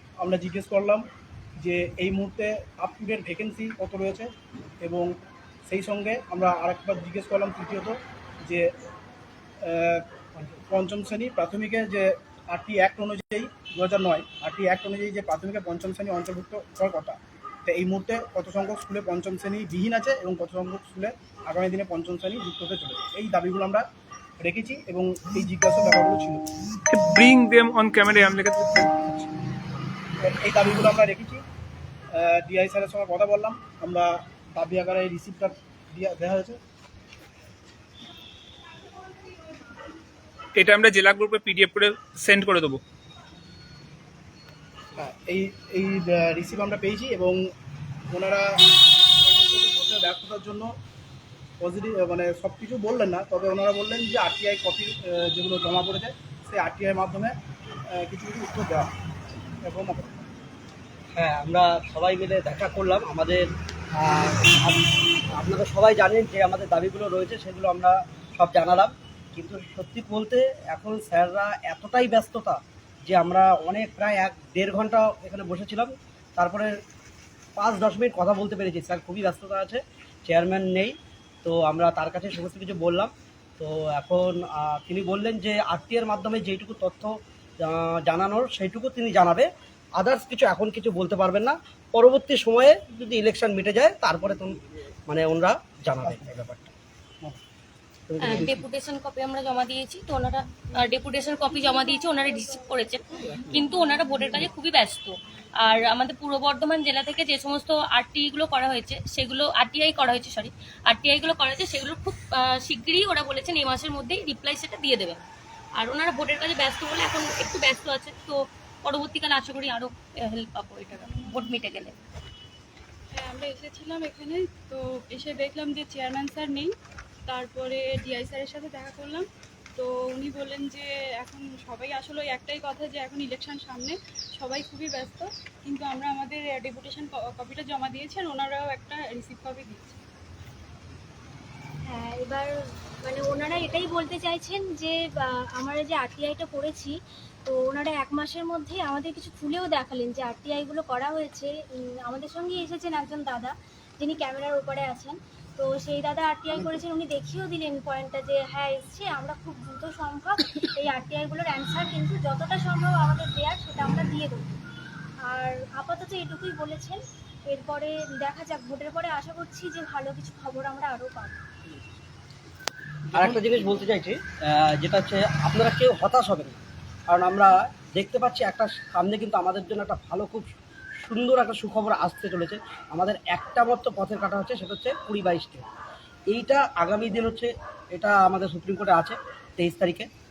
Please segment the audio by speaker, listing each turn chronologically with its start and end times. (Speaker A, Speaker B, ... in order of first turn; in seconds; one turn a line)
Speaker A: 0.2-1.1
Speaker A: 1.6-4.3
Speaker A: 4.8-5.1
Speaker A: 5.7-8.7
Speaker A: 9.6-10.1
Speaker A: 10.7-23.8
Speaker A: 24.4-26.4
Speaker B: 26.9-29.3
Speaker A: 30.2-31.4
Speaker A: 32.1-36.6
Speaker B: 40.6-42.8
Speaker A: 45.0-47.4
Speaker A: 48.1-48.6
Speaker A: 49.2-50.7
Speaker A: 51.6-57.4
Speaker A: 57.9-58.9
Speaker A: 59.6-60.3
Speaker C: 61.1-64.8
Speaker C: 65.3-76.7
Speaker C: 77.6-96.7
Speaker A: 96.0-96.4
Speaker C: 98.1-98.6
Speaker D: 98.2-115.2
Speaker A: 98.3-98.5
Speaker D: 115.8-122.0
Speaker E: 123.1-126.7
Speaker E: 127.3-140.0
Speaker F: 141.8-142.5
Speaker F: 143.0-146.9
Speaker F: 147.5-164.6
Speaker F: 165.3-171.4
Speaker A: 173.1-173.6
Speaker C: 173.2-185.7
Speaker C: 186.3-190.1